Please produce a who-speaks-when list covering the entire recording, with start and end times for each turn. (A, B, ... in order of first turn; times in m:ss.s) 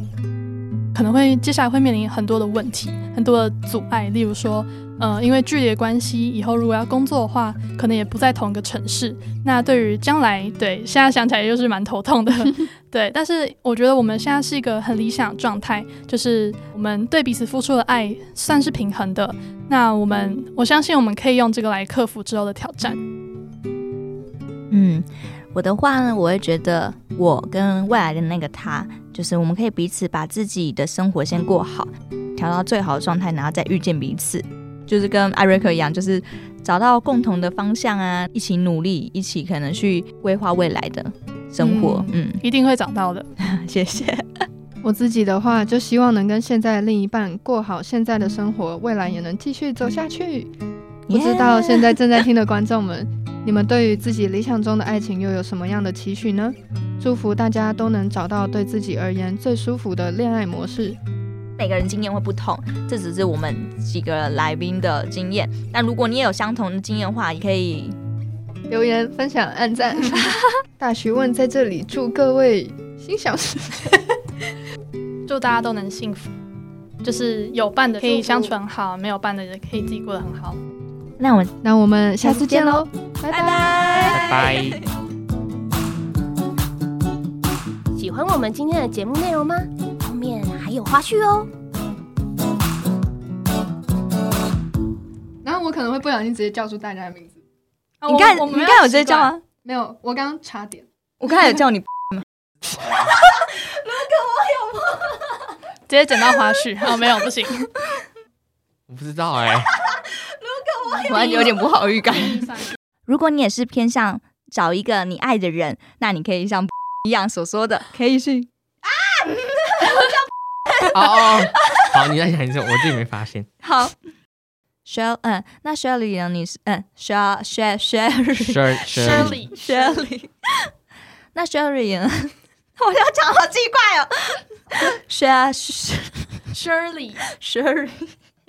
0:00.9-0:23.0 A
0:24.7-0:42.4 B
0:41.6-0:43.3 A
0:43.4-0:44.5 B
0:44.8-0:50.5 C
0:51.1-0:52.0 B
0:51.1-1:01.0 C
1:01.6-1:08.0 B
1:08.7-1:14.0 C
1:15.3-1:16.3 A
1:17.0-1:20.6 A
1:18.0-1:18.5 C
1:21.2-1:21.5 B
1:21.6-1:24.2 C
1:22.2-1:24.8 B
1:24.1-1:24.8 D
1:28.0-1:31.5 E
1:35.4-1:37.4 C
1:38.0-1:39.3 A
1:38.1-1:39.4 B
1:39.6-1:40.9 C
1:41.2-1:42.2 B
1:43.0-1:45.4 B
1:45.9-1:47.8 A
1:48.9-1:49.7 D
1:49.9-1:58.5 B
1:51.2-1:51.5 A
1:52.3-1:52.6 A
1:59.0-2:00.1 B
2:00.9-2:03.5 D
2:01.0-2:01.7 B
2:03.6-2:04.0 B
2:04.9-2:10.7 B
2:08.4-2:09.4 D
2:08.9-2:10.0 A
2:11.3-2:16.3 B
2:16.5-2:17.2 A
2:17.3-2:18.1 B